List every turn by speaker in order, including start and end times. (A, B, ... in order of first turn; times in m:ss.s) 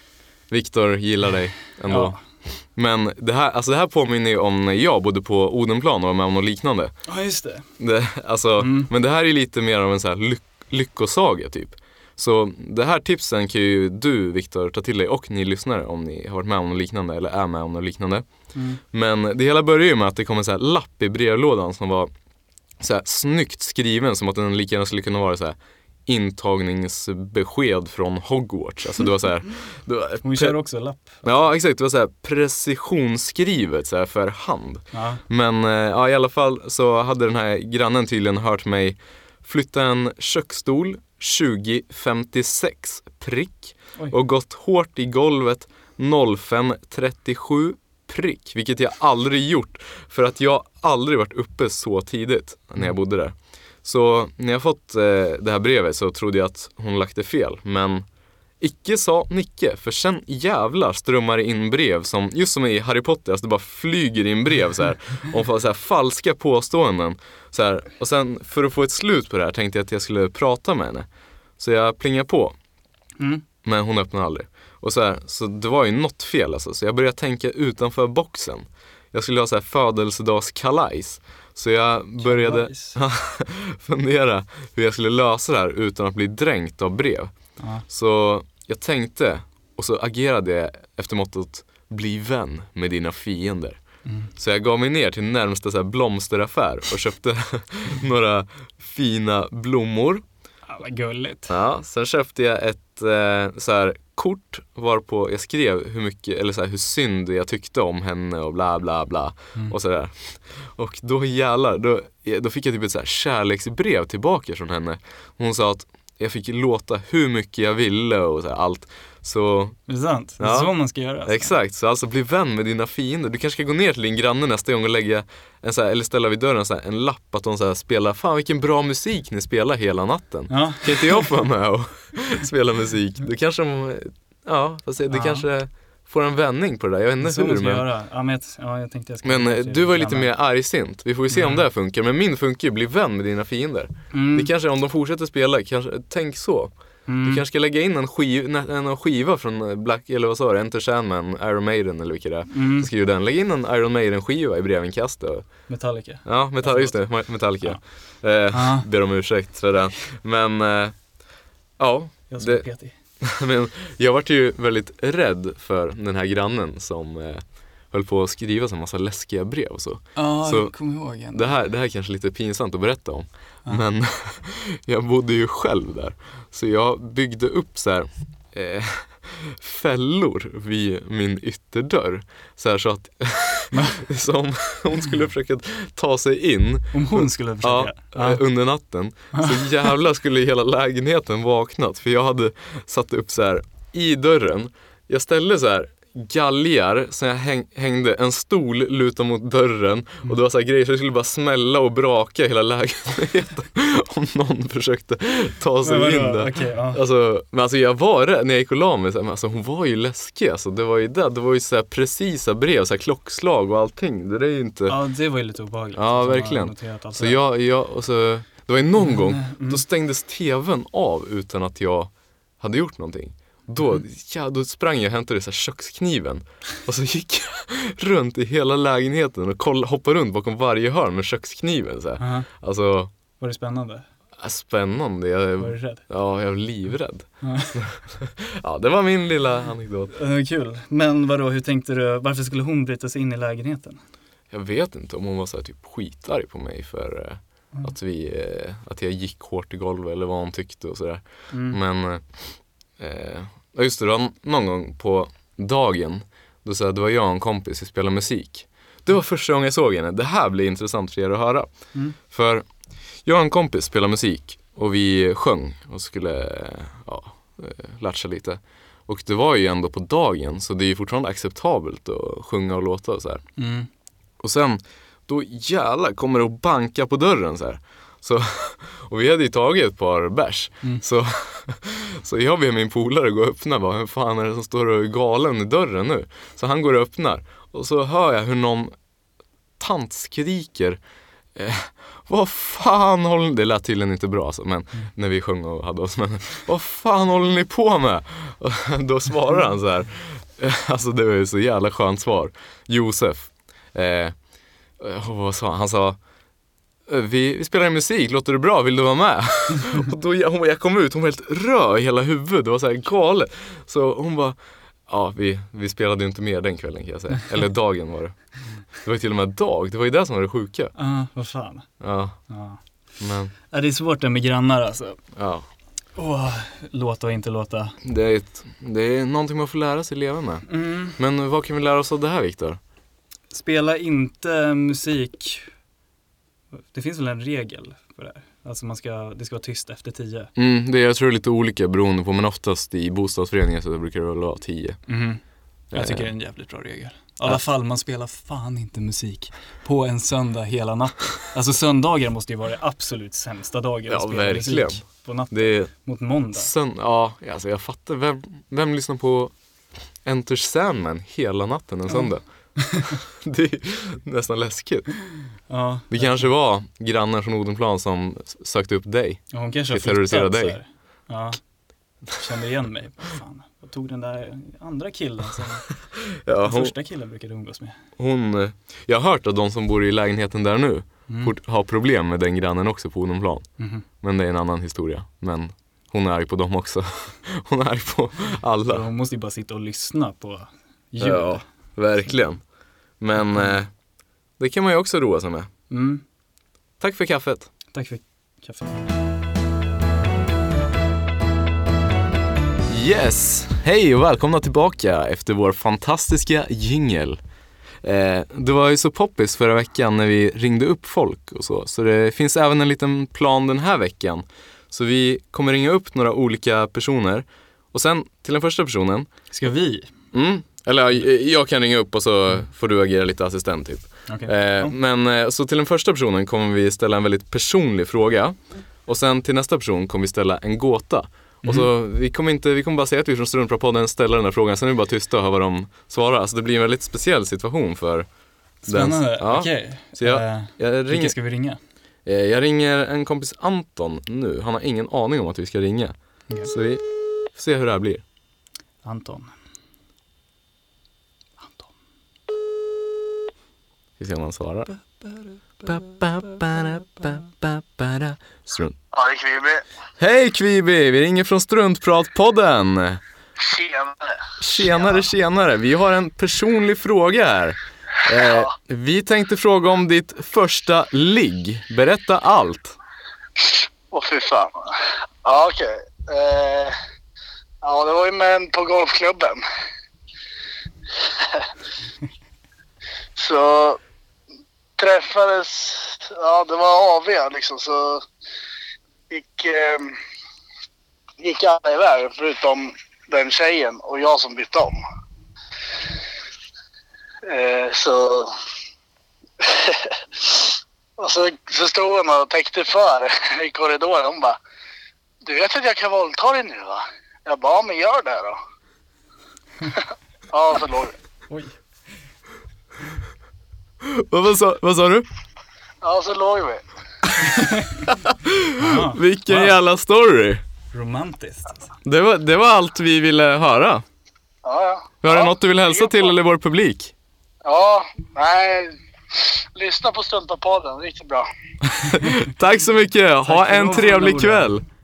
0:00.5-0:06.9 A
0:01.9-0:02.2 B
0:07.0-0:07.6 B
0:07.8-0:18.2 A
0:08.6-0:08.9 B
0:18.5-0:18.8 B
0:18.9-0:22.1 A
0:22.8-0:30.6 A
0:30.2-0:31.2 B
0:31.2-0:58.0 A
0:34.9-0:35.2 B
0:58.6-1:11.1 A
1:11.6-1:12.6 A
1:13.2-1:13.4 B
1:13.6-1:33.8 A
1:22.2-1:23.0 B
1:27.6-1:27.8 B
1:34.0-1:34.3 B
1:34.3-1:40.2 A
1:40.7-1:41.5 B
1:41.5-1:59.8 A
1:59.9-2:01.5 B
2:00.4-2:00.7 A
2:01.2-2:17.8 A
2:10.5-2:11.3 B
2:15.1-2:15.4 B
2:17.2-2:20.3 B
2:19.2-2:35.7 A
2:21.3-2:21.6 B
2:24.1-2:24.5 B
2:27.0-2:27.4 B
2:32.5-2:32.9 B
2:35.7-2:37.8 B
2:36.2-2:41.0 A
2:38.5-2:38.8 B
2:41.8-2:42.6 A
2:42.3-2:43.0 B
2:43.2-2:50.8 A
2:50.2-2:51.5 B
2:51.3-3:35.0 A
3:03.7-3:04.0 B
3:06.9-3:08.4 B
3:09.3-3:09.6 B
3:25.8-3:27.0 B
3:34.9-3:37.4 B
3:35.9-3:53.1 A
3:39.0-3:39.8 B
3:52.2-3:52.5 B
3:53.4-3:54.0 B
3:54.4-4:00.1 A
3:55.6-3:56.0 B
3:57.4-3:57.8 B
4:00.1-4:04.0 B
4:04.5-4:22.7 A
4:11.5-4:11.8 B
4:23.2-4:33.4 A
4:33.6-4:33.9 B
4:34.4-4:48.9 A
4:49.8-4:51.0 A
4:51.5-5:04.4 A
5:05.0-5:06.2 A
5:07.1-5:18.4 A
5:19.0-5:20.9 A
5:21.0-5:21.9 B
5:22.0-5:22.4 A
5:22.5-5:22.8 B
5:23.2-5:23.5 A
5:23.7-5:25.2 B
5:25.4-5:25.6 A
5:26.2-5:28.0 B
5:28.0-5:32.8 A
5:30.7-5:31.2 B
5:33.5-5:35.7 B
5:36.9-5:40.5 B
5:40.6-5:45.0 A
5:45.1-5:45.4 B
5:45.9-5:46.3 A
5:45.9-5:56.7 B
5:54.1-5:55.9 A
5:56.5-5:59.5 A
6:00.2-6:02.4 A
6:02.1-6:03.2 B
6:03.3-6:05.1 A
6:05.7-6:06.5 B
6:06.1-6:10.8 A
6:09.5-6:11.6 B
6:12.3-6:15.9 B
6:16.3-6:16.9 A
6:16.6-6:18.0 B
6:18.2-6:23.6 A
6:21.3-6:21.5 B
6:23.8-6:24.0 B
6:24.2-6:29.0 A
6:28.9-6:31.6 B
6:31.2-6:32.6 A
6:33.2-6:33.9 A
6:34.6-6:35.7 A
6:35.9-6:36.2 B
6:37.0-6:37.7 A
6:37.9-6:39.1 B
6:42.9-6:47.4 A
6:48.0-6:59.3 A
6:59.5-7:00.1 B
7:00.3-7:18.3 A
7:04.3-7:04.9 B
7:11.6-7:11.9 B
7:18.8-7:21.8 B
7:18.9-7:21.3 A
7:22.2-7:28.2 A
7:29.0-7:29.5 B
7:31.6-7:31.9 B
7:34.2-7:34.9 A
7:35.2-7:35.5 B
7:35.8-7:39.0 A
7:39.1-7:39.8 C
7:40.2-7:43.2 A
7:43.6-7:44.4 C
7:44.6-7:53.0 A
7:53.6-7:54.9 C
7:55.4-7:57.0 C
7:57.8-7:59.6 C
8:01.2-8:01.7 C
8:03.4-8:04.0 C
8:05.0-8:08.2 C
8:09.3-8:10.2 C
8:11.4-8:15.0 C
8:17.5-8:18.5 C
8:19.6-8:24.6 C
8:25.4-8:28.6 C
8:29.9-8:31.2 C
8:31.5-8:31.7 B
8:34.0-8:35.2 A
8:36.0-8:36.8 C
8:37.6-8:38.0 B
8:38.1-8:40.6 A
8:38.8-8:39.7 B
8:40.9-8:41.9 B
8:42.0-8:44.0 A
8:44.6-8:46.4 C
8:45.2-8:47.1 A
8:47.6-8:51.5 C
8:52.1-8:54.8 A
8:53.4-8:54.7 B